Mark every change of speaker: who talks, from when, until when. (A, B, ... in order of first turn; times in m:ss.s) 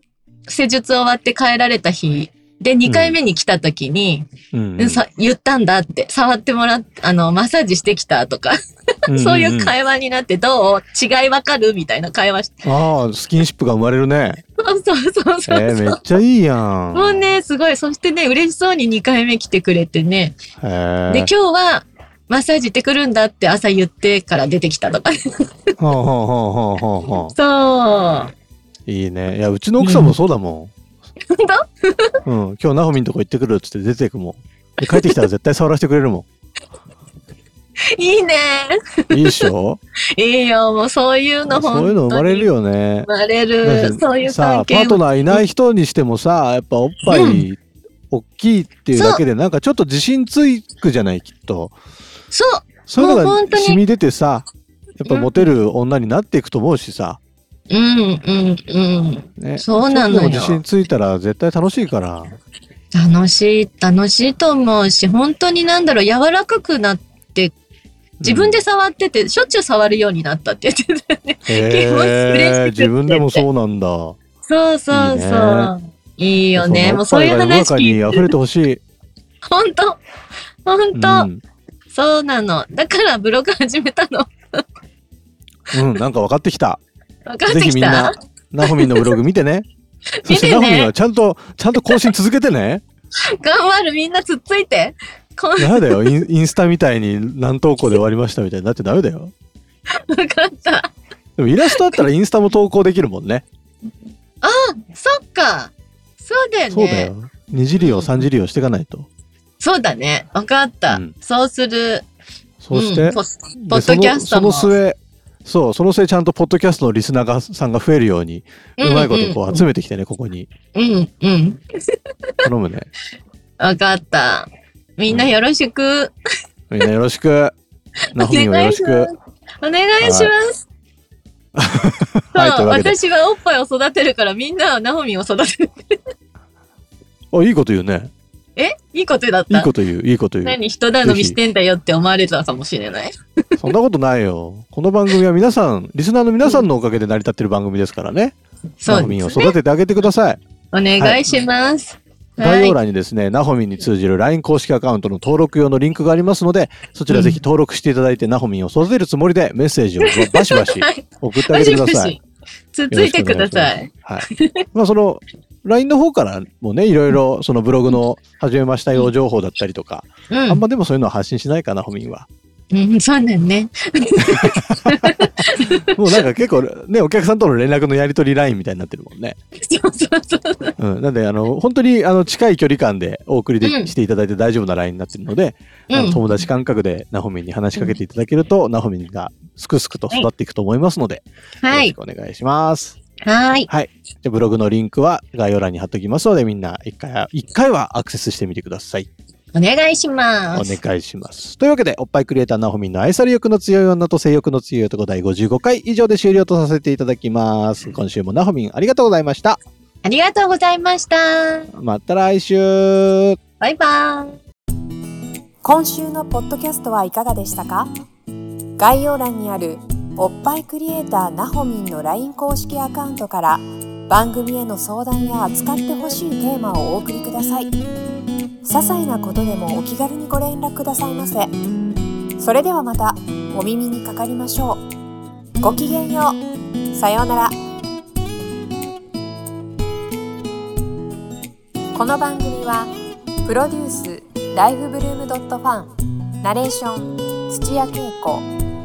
0:00.5-0:08.6 A
0:02.8-0:03.2 B
0:04.5-0:05.0 B
0:09.1-0:09.7 B
0:09.1-0:12.6 A
0:12.6-0:14.4 B
0:14.6-0:16.0 A
0:15.5-0:17.3 B
0:16.9-0:20.4 A
0:20.6-0:21.3 B
0:21.1-0:25.2 A
0:25.8-0:27.3 B
0:27.3-0:28.3 A
0:28.9-0:30.7 B
0:29.8-0:30.1 A
0:31.3-0:32.1 A
0:32.2-0:36.2 B
0:34.9-0:35.2 A
0:37.9-0:39.4 A
0:39.1-0:39.8 B
0:40.2-0:42.5 A
0:41.5-0:43.1 B
0:43.0-0:45.4 A
0:43.6-0:47.6 B
0:47.0-0:47.4 A
0:48.1-0:51.7 B
0:48.9-0:49.2 A
0:52.3-0:53.8 A
0:52.9-0:54.5 B
0:55.0-0:57.2 B
0:55.0-0:55.5 A
0:57.7-1:00.6 A
0:59.4-1:02.3 B
1:02.9-1:07.5 A
1:08.2-1:08.6 B
1:08.2-1:13.4 A
1:11.5-1:14.2 B
1:14.4-1:18.3 A
1:14.9-1:15.7 B
1:16.5-1:18.8 B
1:19.5-1:20.0 A
1:20.6-1:21.3 A
1:20.9-1:21.4 B
1:21.9-1:24.6 A
1:25.7-1:26.8 B
1:27.2-1:29.2 A
1:27.5-1:29.6 B
1:30.2-1:30.9 A
1:30.2-1:32.8 B
1:33.3-1:36.1 A
1:35.6-1:39.3 B
1:40.0-1:40.9 A
1:41.4-1:43.4 B
1:41.7-1:42.0 A
1:44.4-1:47.1 A
1:46.7-1:49.1 B
1:47.8-1:48.2 A
1:49.6-1:52.0 A
1:50.9-1:51.1 B
1:52.6-2:00.5 B
1:52.7-1:54.7 A
1:58.8-1:59.6 A
2:00.7-2:01.6 A
2:02.4-2:02.9 B
2:03.6-2:06.1 A
2:05.1-2:05.3 B
2:06.7-2:07.5 B
2:08.1-2:09.1 B
2:08.2-2:10.6 A
2:10.0-2:10.3 B
2:11.6-2:13.0 B
2:12.3-2:16.0 A
2:17.3-2:18.1 B
2:18.6-2:19.7 A
2:19.5-2:21.4 B
2:20.4-2:23.2 A
2:23.6-2:28.3 B
2:28.8-2:29.5 A
2:28.8-2:30.4 B
2:30.7-2:32.8 A
2:31.0-2:31.4 B
2:32.4-2:42.2 B
2:37.1-2:37.4 A
2:40.0-2:42.2 A
2:42.7-2:44.6 A
2:42.9-2:52.3 B
2:50.3-2:50.6 A
2:52.7-2:56.2 A
2:55.9-2:59.4 B
2:59.6-3:00.7 A
3:00.8-3:13.0 B
3:03.6-3:03.9 A
3:05.9-3:06.2 A
3:11.6-3:11.9 A
3:13.2-3:13.7 A
3:13.7-3:19.1 B
3:19.5-3:20.8 A
3:20.5-3:29.6 B
3:30.0-3:31.7 A
3:31.7-3:33.4 B
3:33.6-3:34.3 A
3:35.6-3:37.9 C
3:38.8-3:47.8 C
3:48.6-3:51.5 C
3:52.4-3:54.8 C
3:55.6-3:57.6 C
4:01.9-4:02.9 C
4:03.4-4:08.5 C